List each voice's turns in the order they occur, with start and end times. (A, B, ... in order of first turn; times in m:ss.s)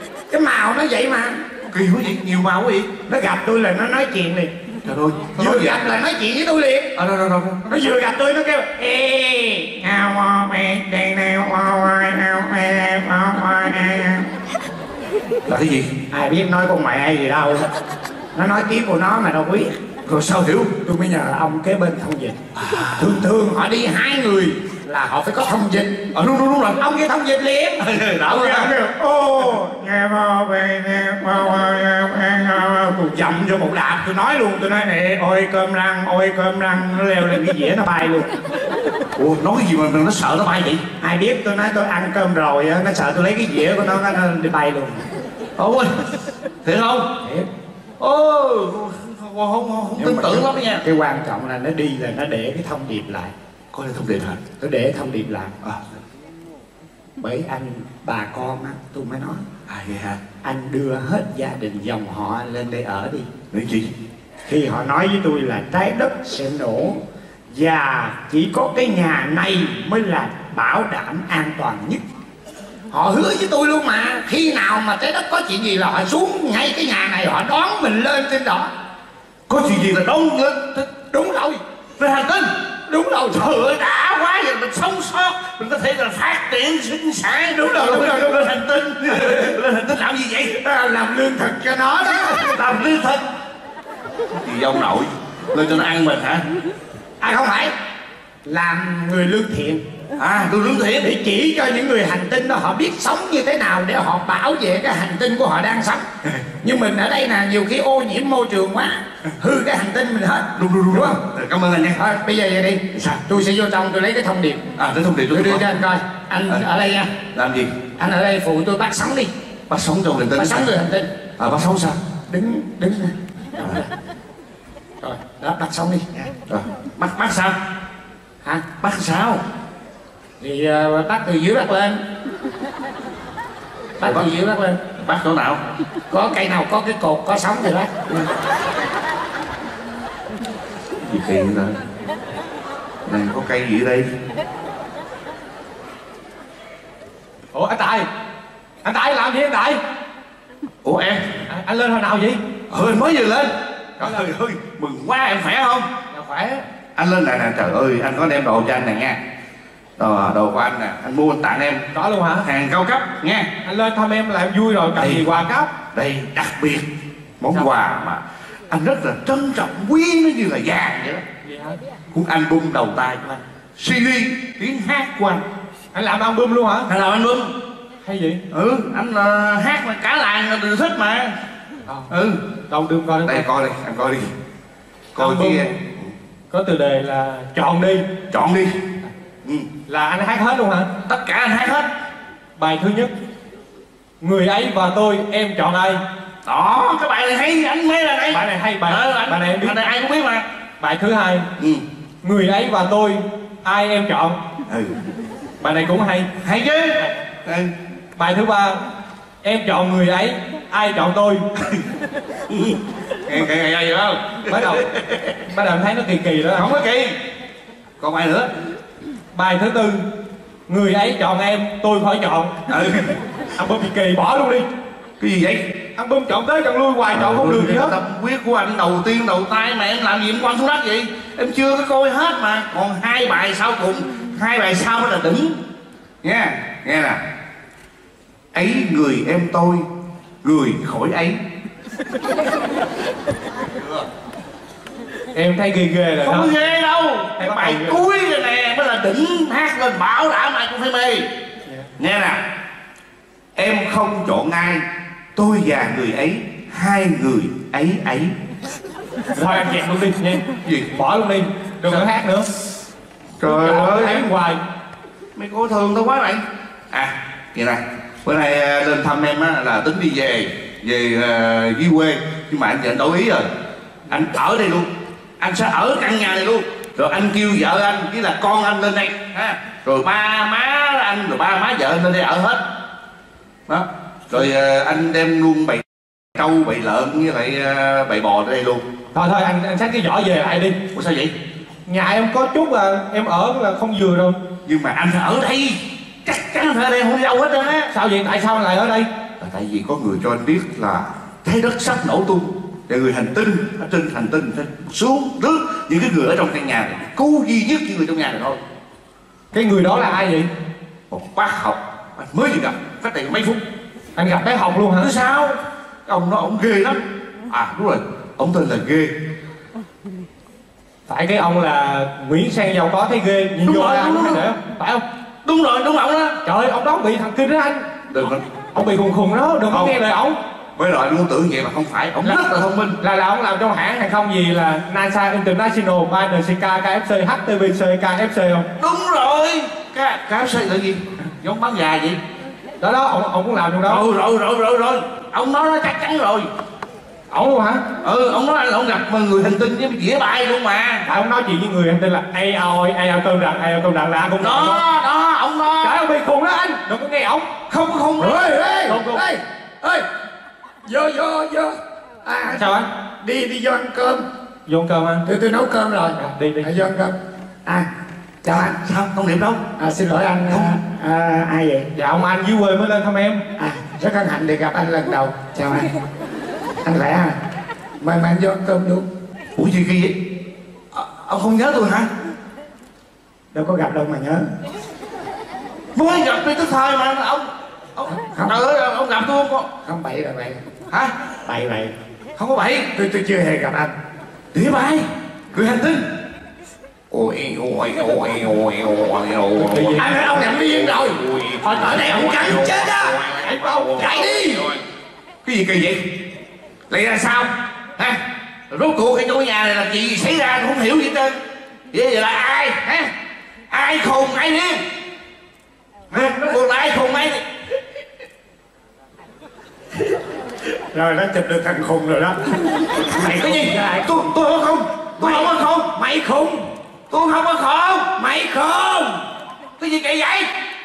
0:00.3-0:01.4 A
0:01.7-0:02.9 B
0:03.1-0:04.5 A
0:04.8-0:05.8 B
0:05.4-0:06.9 A
0:07.0-0:07.6 B
0:07.6-0:14.3 A
0:15.5-0:15.9 B
0:16.1-0:17.6 A
0:18.4-0:19.7 A
0:20.1-0:20.7 B
0:20.8-0:22.4 A
0:22.6-0:23.2 B
0:23.0-0:25.9 A
0:26.1-0:26.8 B
0:26.8-0:38.3 A
0:27.8-0:28.7 B
0:39.2-0:40.8 B
0:41.0-0:45.1 A
0:45.6-0:46.0 B
0:46.6-0:47.1 B
0:47.2-0:47.5 A
0:48.0-0:50.8 B
0:50.0-0:53.3 A
0:53.7-0:54.4 B
0:54.6-0:55.6 A
0:57.2-0:59.4 A
0:59.7-1:00.2 B
1:00.4-1:03.3 A
1:03.5-1:03.9 B
1:04.5-1:12.0 A
1:12.9-1:18.7 A
1:19.5-1:20.9 B
1:21.1-1:21.6 A
1:22.0-1:22.5 B
1:22.9-1:23.5 A
1:23.3-1:30.6 B
1:27.5-1:28.4 A
1:29.1-1:29.5 A
1:30.5-1:32.6 A
1:32.5-1:33.2 B
1:34.4-1:36.4 B
1:37.2-1:37.7 A
1:38.4-1:39.8 A
1:40.2-1:41.1 B
1:41.0-1:46.0 A
1:46.6-1:51.2 A
1:50.6-1:52.0 B
1:52.0-1:54.6 A
1:52.9-1:53.2 B
1:54.8-1:55.8 B
1:55.3-1:57.1 A
1:57.3-1:57.7 B
1:58.0-1:59.3 A
1:59.7-2:00.7 B
2:00.4-2:01.1 A
2:01.4-2:02.0 B
2:02.3-2:03.9 A
2:05.0-2:06.3 A
2:06.5-2:07.6 B
2:08.8-2:09.4 B
2:10.4-2:12.0 A
2:14.0-2:14.8 A
2:14.0-2:14.3 B
2:15.0-2:15.6 B
2:16.1-2:18.2 A
2:21.0-2:21.8 B
2:23.1-2:24.1 B
2:27.5-2:28.1 C
2:28.8-2:29.8 C
2:30.8-2:31.3 B
2:31.5-2:32.4 C
2:32.7-2:35.9 B
2:36.1-2:36.6 C
2:37.0-2:39.2 B
2:40.0-2:41.9 B
2:41.9-2:42.5 C
2:42.4-2:43.5 B
2:43.6-2:45.7 C
2:45.0-2:45.2 B
2:45.9-2:46.9 B
2:47.4-2:51.2 B
2:51.4-2:51.8 C
2:52.1-2:55.4 B
2:55.9-2:56.9 C
2:56.9-2:57.5 B
2:58.0-2:58.4 C
2:58.5-3:01.4 B
3:02.1-3:02.4 B
3:02.7-3:03.4 C
3:03.2-3:04.3 B
3:05.2-3:05.7 C
3:05.2-3:06.1 B
3:06.5-3:08.0 C
3:08.3-3:08.8 B
3:09.9-3:10.9 C
3:11.0-3:11.9 B
3:12.6-3:13.1 C
3:14.2-3:16.0 C
3:16.4-3:20.5 B
3:18.3-3:19.8 C
3:20.8-3:21.5 C
3:21.6-3:21.8 B
3:22.2-3:24.4 C
3:24.7-3:25.0 B
3:25.6-3:26.3 C
3:26.4-3:27.7 B
3:28.2-3:28.8 C
3:29.4-3:31.4 C
3:32.5-3:35.4 B
3:34.5-3:34.9 C
3:35.5-3:36.7 C
3:36.5-3:37.2 B
3:38.0-3:38.5 B
3:39.3-3:40.0 C
3:40.7-3:42.5 C
3:42.7-3:43.1 B
3:43.6-3:44.6 C
3:45.2-3:45.7 B
3:46.0-3:48.0 C
3:47.1-3:55.6 B
3:56.2-3:57.2 B
3:58.5-3:59.9 B
4:00.4-4:01.4 B
4:05.3-4:06.5 C
4:06.2-4:11.3 B
4:07.4-4:08.0 C
4:12.0-4:12.4 B
4:13.6-4:18.4 B
4:19.4-4:22.5 C
4:20.6-4:20.9 B
4:23.4-4:24.3 B
4:23.4-4:24.6 C
4:25.4-4:33.5 B
4:34.1-4:42.6 B
4:43.7-4:48.8 B
4:49.1-4:50.8 C
4:50.9-4:51.4 B
4:51.9-4:54.4 C
4:54.6-4:57.9 B
4:57.9-4:59.1 C
4:59.4-5:08.6 B
5:09.5-5:10.5 C
5:11.1-5:13.6 B
5:14.2-5:15.1 C
5:15.0-5:19.1 B
5:21.1-5:25.0 C
5:23.6-5:24.5 B
5:25.4-5:26.4 B
5:26.4-5:27.9 C
5:28.1-5:28.8 B
5:28.8-5:30.4 C
5:29.7-5:30.0 B
5:30.8-5:33.0 B
5:33.0-5:38.7 C
5:38.8-5:42.2 B
5:42.8-5:44.0 C
5:43.8-5:46.5 B
5:47.3-5:47.8 C
5:48.0-5:51.1 B
5:51.1-5:54.8 C
5:54.4-5:56.0 B
5:55.8-5:57.5 C
5:57.7-5:58.5 B
5:58.2-6:00.1 A
5:58.9-5:59.2 C
6:00.8-6:04.2 A
6:02.5-6:02.9 C
6:04.7-6:05.2 C
6:05.2-6:07.1 A
6:06.2-6:06.7 C
6:08.4-6:08.8 A
6:08.5-6:09.6 B
6:09.8-6:11.9 A
6:10.5-6:10.8 B
6:12.0-6:13.4 C
6:13.6-6:15.9 A
6:16.8-6:17.4 A
6:18.0-6:19.1 A
6:19.6-6:20.2 B
6:20.9-6:22.1 B
6:23.5-6:24.5 A
6:26.0-6:29.7 B
6:28.1-6:28.6 A
6:29.8-6:30.6 A
6:31.5-6:31.9 A
6:32.4-6:32.9 B
6:33.0-6:33.9 A
6:34.5-6:36.1 B
6:37.1-6:40.0 B
6:39.6-6:40.4 C
6:40.0-6:43.2 A
6:41.2-6:43.4 B
6:41.6-6:42.4 C
6:43.4-6:44.3 C
6:44.0-6:44.7 A
6:44.0-6:44.8 B
6:45.4-6:46.0 B
6:46.9-6:48.2 B
6:48.7-6:51.4 B
6:51.9-6:53.1 B
6:53.7-6:54.8 B
6:56.1-6:57.4 B
7:00.9-7:02.4 A
7:03.0-7:04.3 A
7:03.1-7:05.9 B
7:05.2-7:06.6 A
7:07.1-7:08.1 B
7:08.2-7:09.2 A
7:09.8-7:10.5 B